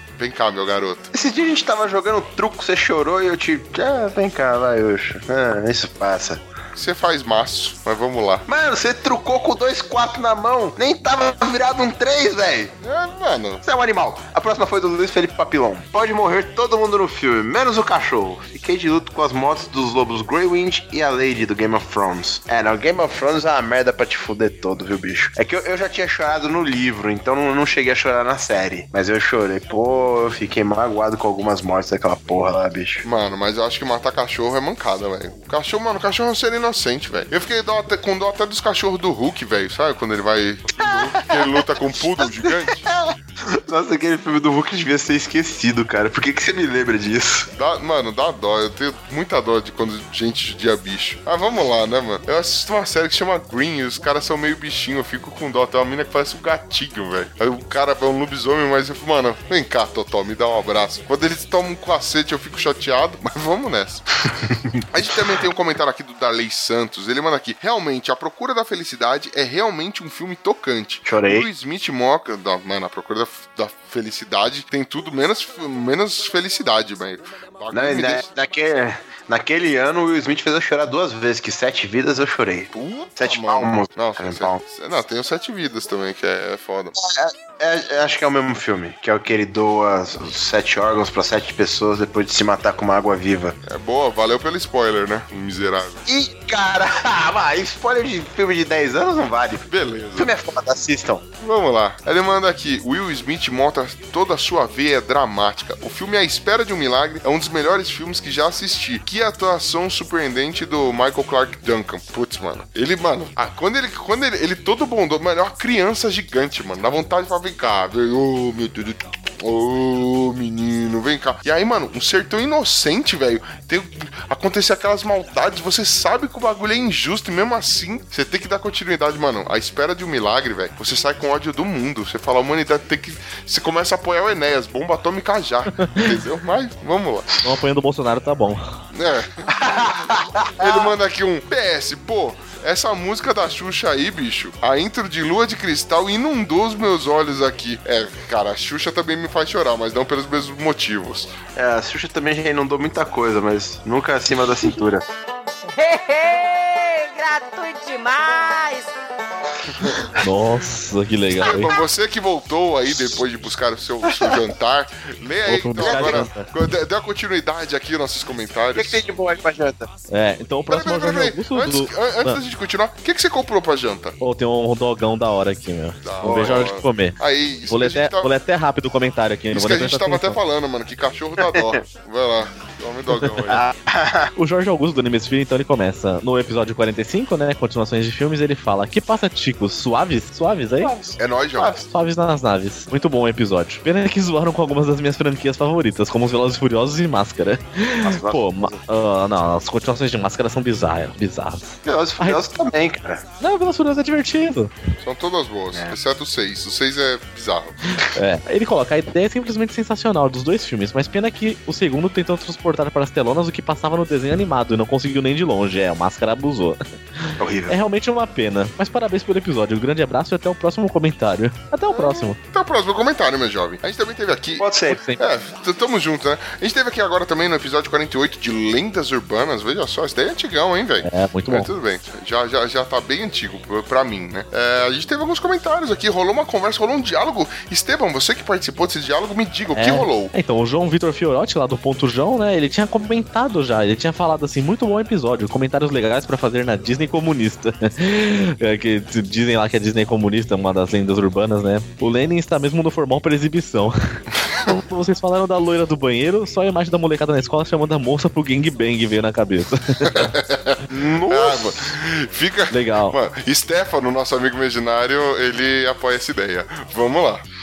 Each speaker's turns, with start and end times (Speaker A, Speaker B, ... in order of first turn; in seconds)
Speaker A: 0.2-1.1, 6.8-8.4, 12.8-13.6, 33.0-42.9, 47.6-64.0, 64.9-78.3, 82.7-87.0, 93.7-96.0, 99.7-100.3, 101.4-137.3, 138.9-151.3, 161.4-169.1, 170.7-174.2, 176.0-178.3, 179.5-183.6, 191.2-191.8, 205.0-207.8, 221.9-240.3, 260.0-267.4
Speaker B: 1.1-6.4, 8.5-12.7, 13.6-33.0, 40.9-41.6, 42.2-43.1, 43.7-47.5, 71.0-71.5, 77.7-84.6, 87.0-93.6, 96.1-99.7, 100.2-101.2, 139.6-140.9, 151.6-155.1, 164.2-164.4, 165.8-166.3, 168.8-169.9, 176.2-176.6, 181.5-181.8, 183.5-184.3, 190.8-191.8, 198.0-198.8, 201.8-203.2, 217.4-217.8, 224.6-225.0, 260.9-261.8
Speaker C: 137.4-138.8, 160.2-161.7, 165.5-166.5, 170.1-172.4, 174.2-177.2, 177.7-180.4, 183.2-183.4, 184.4-190.9, 191.9-202.4, 203.4-204.7, 208.0-222.4, 224.9-225.2, 231.0-231.7, 239.7-253.9, 254.7-260.3, 262.7-263.2
Speaker D: 155.8-158.7